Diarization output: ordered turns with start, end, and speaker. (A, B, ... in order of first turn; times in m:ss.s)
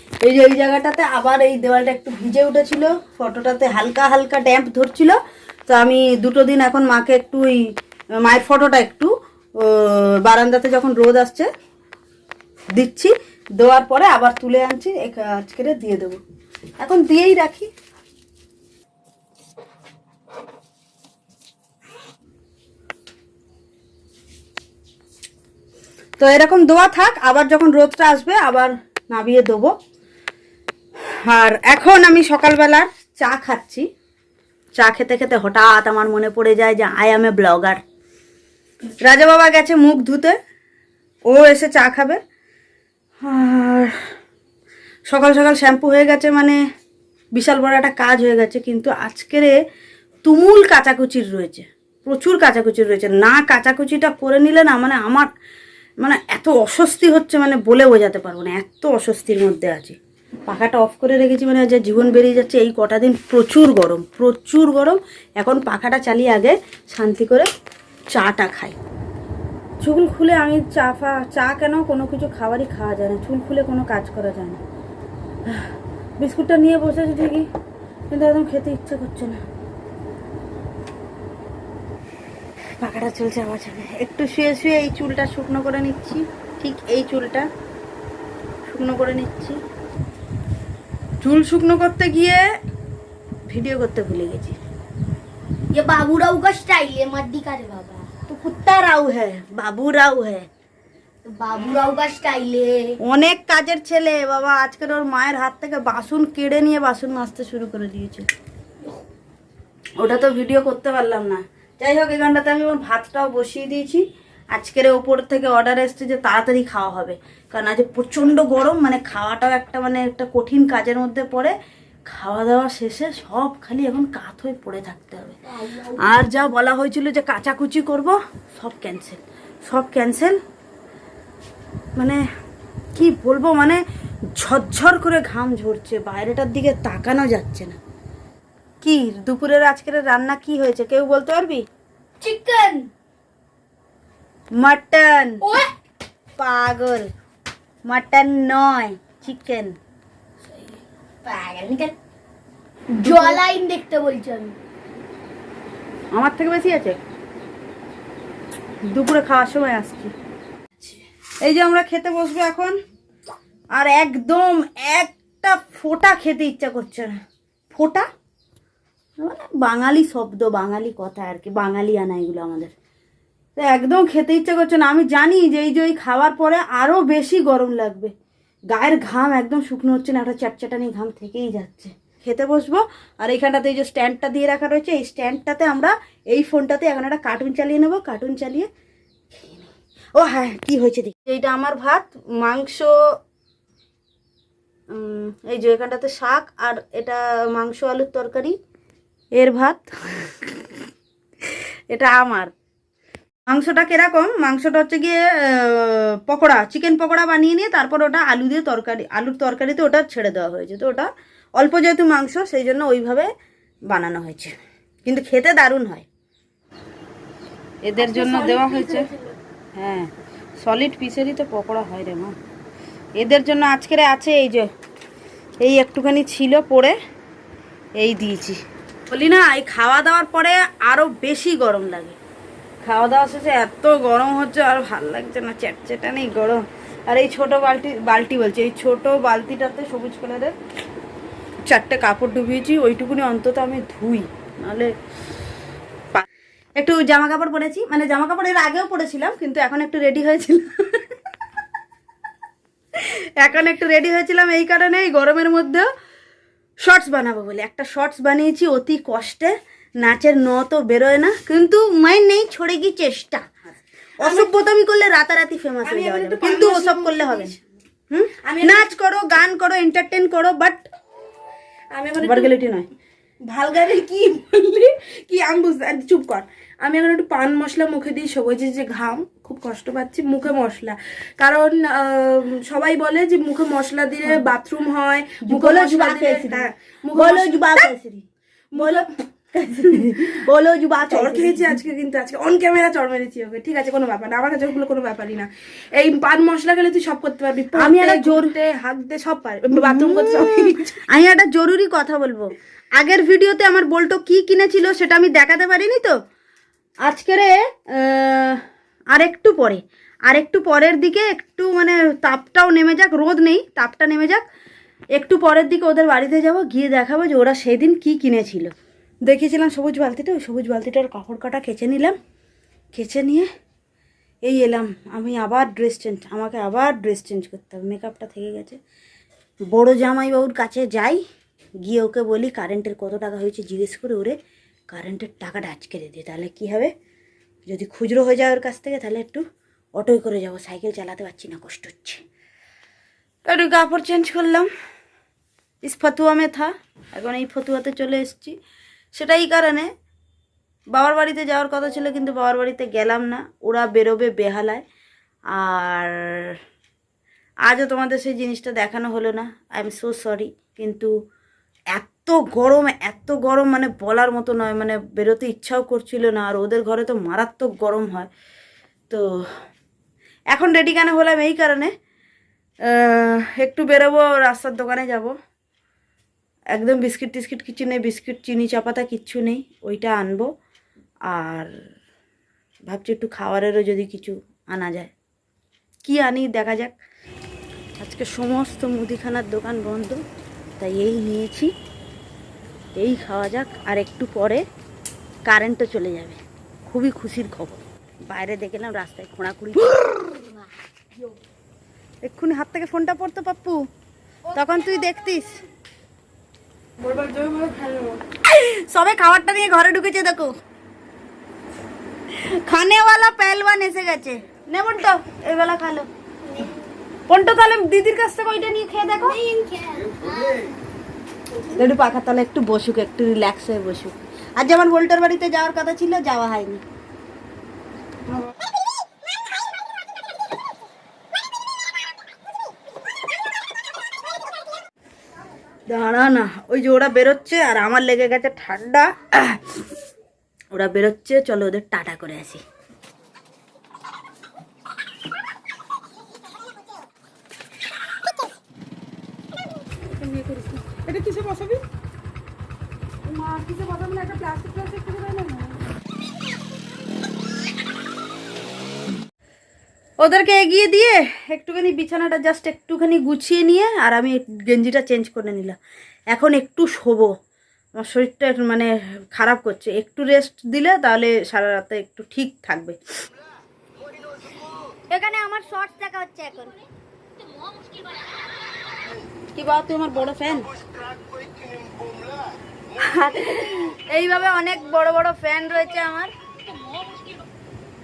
0:00.2-0:05.2 A
0:05.7-0:07.7 A
0:08.2-0:11.5 A
0:12.7-0:16.2 A
0:16.8-0:17.7 A
0:26.2-0:29.7 A
0:31.2-0:33.9 A
0:34.8-0:37.8 A
0:39.0-0:40.4 A
0:41.3-0:42.2 A
0:43.2-0:43.9 A
0:45.1-0:46.6 A
0:47.3-0:49.6 A
0:50.2-0:55.3 A
0:56.0-1:07.5 A
1:08.1-1:08.8 A
1:09.8-1:14.6 A
1:15.5-1:17.5 A
1:18.1-1:19.4 A
1:22.8-1:27.5 A
1:28.7-1:29.6 A
1:31.2-1:32.4 A
1:33.5-1:34.6 A
1:35.7-1:38.1 B
1:38.3-1:40.5 A
1:41.2-1:43.0 B
1:43.0-1:48.3 A
1:50.0-2:01.6 A
2:02.1-2:10.4 A
2:05.6-2:06.0 B
2:12.0-2:12.2 A
2:13.0-2:13.8 A
2:14.4-2:17.8 A
2:18.8-2:21.6 A
2:22.2-2:22.9 B
2:24.6-2:25.4 A
2:25.4-2:25.7 B
2:26.4-2:27.1 A
2:27.9-2:29.8 A
2:31.2-2:32.0 B
2:33.0-2:34.6 B
2:33.0-2:33.4 A
2:36.1-2:37.0 A
2:38.9-2:40.1 A
2:41.4-2:42.8 A
2:43.7-2:47.2 A
2:47.7-2:48.1 A
2:49.2-2:52.7 A
2:53.6-2:58.1 A
2:58.7-3:08.7 A
3:09.3-3:12.9 A
3:14.9-3:18.6 A
3:19.4-3:20.5 A
3:21.9-3:22.5 A
3:23.5-3:33.3 A
3:33.9-3:36.1 A
3:37.8-3:39.1 A
3:38.1-3:38.9 C
3:38.4-3:39.0 B
3:39.8-3:42.4 A
3:43.2-3:44.7 A
3:45.6-3:47.0 A
3:48.0-3:52.2 A
3:52.8-4:00.6 A
4:01.7-4:04.9 A
4:06.8-4:11.1 A
4:13.0-4:15.9 A
4:16.8-4:23.4 A
4:24.2-4:27.5 A
4:24.2-4:24.6 C
4:25.8-4:27.6 C
4:28.1-4:30.9 A
4:28.4-4:28.9 C
4:31.9-4:32.5 C
4:32.2-4:32.9 A
4:33.5-4:47.9 C
4:45.4-4:48.2 A
4:48.7-4:49.1 C
4:48.8-4:51.8 A
4:49.6-4:50.3 C
4:51.0-5:01.0 C
4:57.8-4:58.5 A
4:59.8-5:06.2 A
5:07.0-5:08.6 A
5:09.1-5:14.4 A
5:15.2-5:18.7 A
5:19.2-5:22.2 A
5:22.9-5:23.5 A
5:24.4-5:28.8 A
5:29.7-5:31.2 A
5:31.8-5:34.4 A
5:34.9-5:36.9 A
5:37.7-5:39.4 A
5:40.0-5:42.2 A
5:43.5-5:44.7 A
5:45.8-5:48.6 A
5:49.1-5:49.9 A
5:50.9-5:54.8 A
5:55.5-5:56.6 A
5:57.7-6:01.1 A
6:01.9-6:08.3 A
6:10.5-6:11.9 A
6:12.9-6:15.3 A
6:16.7-6:20.5 A
6:21.3-6:21.7 A
6:22.9-6:25.1 A
6:26.0-6:27.0 A
6:28.0-6:30.2 A
6:30.8-6:31.7 A
6:33.0-6:34.6 A
6:35.5-6:40.5 A
6:42.2-6:43.8 A
6:44.5-6:45.6 A
6:47.0-6:48.2 C
6:48.4-6:50.5 A
6:52.3-6:56.1 A
6:57.3-6:59.4 A
6:59.2-7:00.7 B
7:01.7-7:06.8 A
7:15.9-7:19.8 A
7:20.7-7:22.6 A
7:30.0-7:31.8 C
7:33.3-7:35.8 C
7:40.2-7:45.8 A
7:46.3-7:47.3 A
7:48.0-7:53.0 A
7:55.1-7:56.7 B
7:55.1-7:56.4 A
7:57.6-7:58.3 B
7:59.6-8:00.7 A
8:03.0-8:06.3 A
8:06.8-8:07.4 B